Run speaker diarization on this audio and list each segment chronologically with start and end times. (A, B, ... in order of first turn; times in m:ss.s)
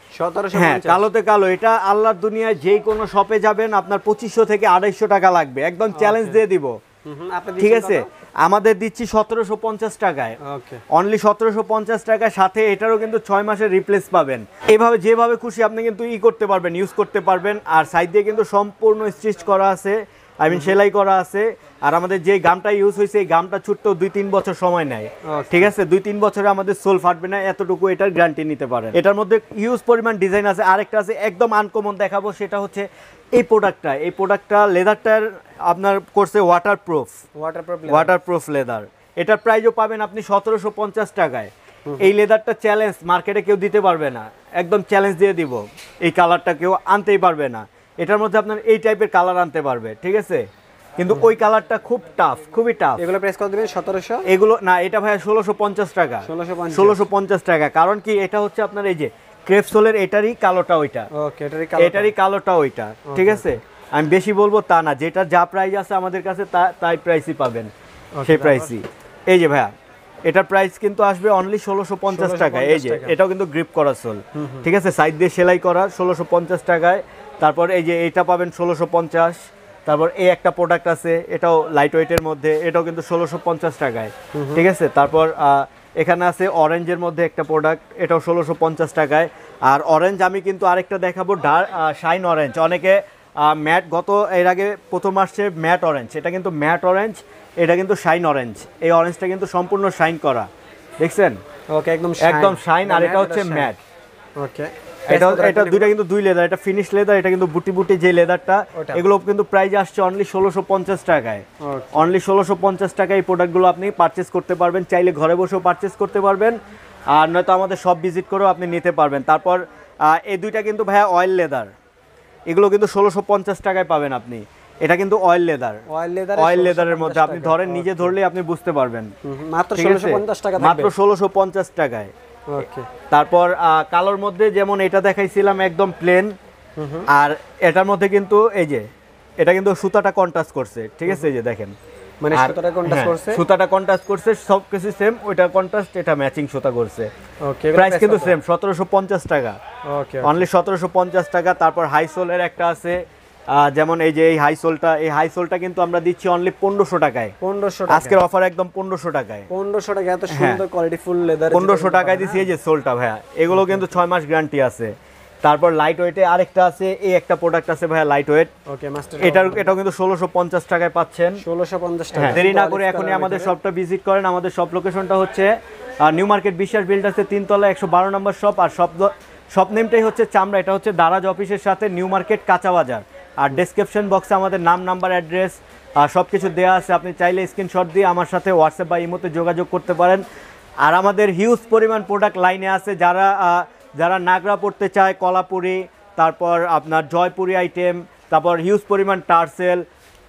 0:00.2-0:01.0 A
0:00.5-0:06.8 B
0:05.9-0:06.4 A
0:07.0-0:08.1 A
0:07.6-0:10.4 B
0:10.4-0:10.8 A
0:10.9-0:37.1 B
0:20.5-0:20.8 A
0:25.2-0:25.7 A
0:37.4-0:38.1 A
0:37.9-0:50.4 B
0:51.0-0:53.0 B
0:53.0-0:54.2 A
0:54.3-1:01.1 B
0:56.2-0:57.0 A
1:01.1-1:02.1 A
1:01.8-1:07.7 B
1:03.1-1:03.5 A
1:08.2-1:08.7 A
1:08.2-1:09.7 B
1:10.3-1:40.5 B
1:12.1-1:13.2 A
1:14.4-1:14.7 A
1:24.3-1:24.7 A
1:41.0-1:41.4 B
1:41.7-1:43.7 A
1:42.2-1:43.8 B
1:44.4-1:45.9 A
1:45.1-1:56.6 B
1:48.8-1:49.0 A
1:51.6-1:52.1 A
1:57.1-2:01.7 B
2:02.5-2:05.8 B
2:05.9-2:08.2 A
2:06.4-2:09.1 B
2:09.2-2:10.9 A
2:09.8-2:12.1 B
2:12.5-2:12.9 A
2:13.1-2:16.3 B
2:16.8-2:17.1 A
2:17.1-2:18.9 B
2:19.4-2:21.7 B
2:22.2-2:23.4 A
2:22.3-2:27.1 B
2:27.4-2:28.4 A
2:27.8-2:29.6 B
2:29.9-2:30.5 A
2:30.2-2:37.3 B
2:37.4-2:38.2 A
2:37.9-2:39.5 B
2:39.5-2:42.5 A
2:40.3-2:40.6 B
2:41.5-2:48.5 B
2:43.5-2:43.8 A
2:48.7-2:49.8 A
2:49.2-2:51.4 B
2:51.4-2:53.6 A
2:52.2-2:55.5 B
2:56.0-3:10.2 B
3:10.8-3:19.8 B